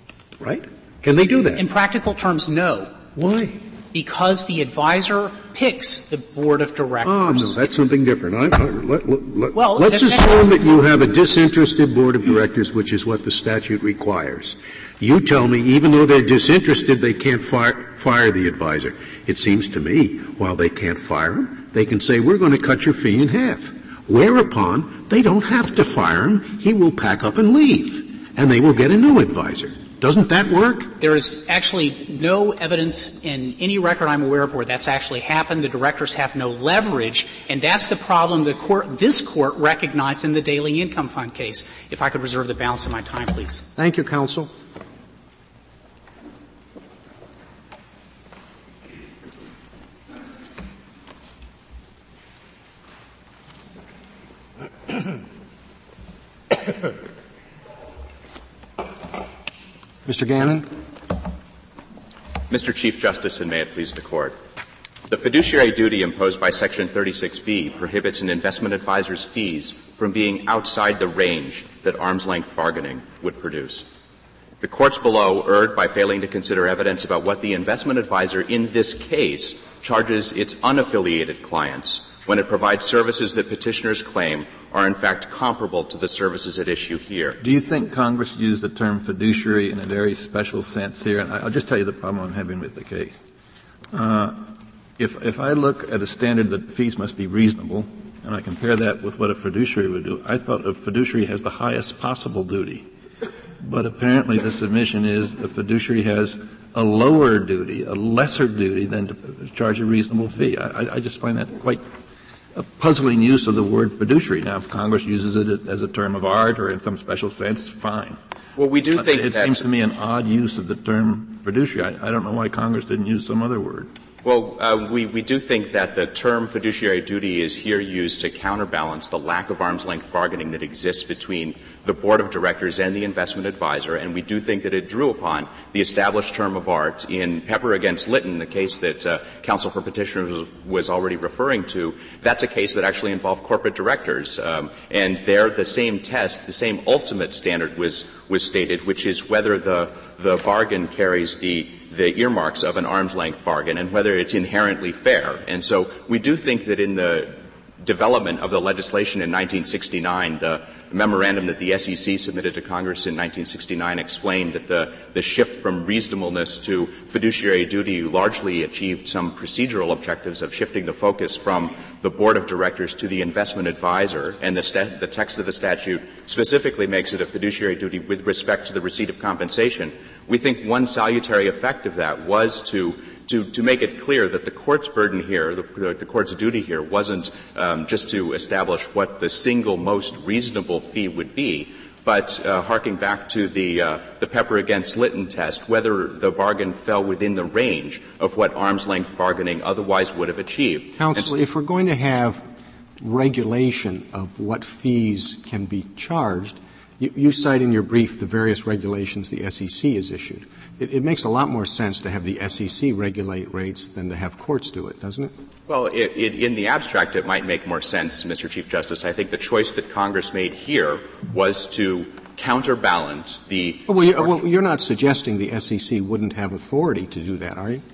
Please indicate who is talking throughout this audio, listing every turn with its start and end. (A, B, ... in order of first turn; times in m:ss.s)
0:00.4-0:01.6 A
0:01.6-0:03.0 B
0:03.1-0:03.6 A
0:03.9-0:07.6 B
0:07.0-0:30.9 A
0:09.5-0:10.5 B
0:31.0-0:43.6 B
0:43.8-0:44.5 C
1:00.0-1:00.7 C
1:02.5-1:04.4 D
1:05.1-1:13.8 D
1:14.6-1:27.4 D
1:27.4-1:33.2 E
1:33.9-1:42.9 E
1:43.6-1:51.8 E
1:52.5-1:58.2 E
1:58.6-1:59.6 D
1:58.9-2:03.9 E
2:04.2-3:21.3 D
3:21.0-3:22.4 C
3:23.0-3:35.3 C
3:35.7-3:44.3 D
3:43.9-3:47.8 C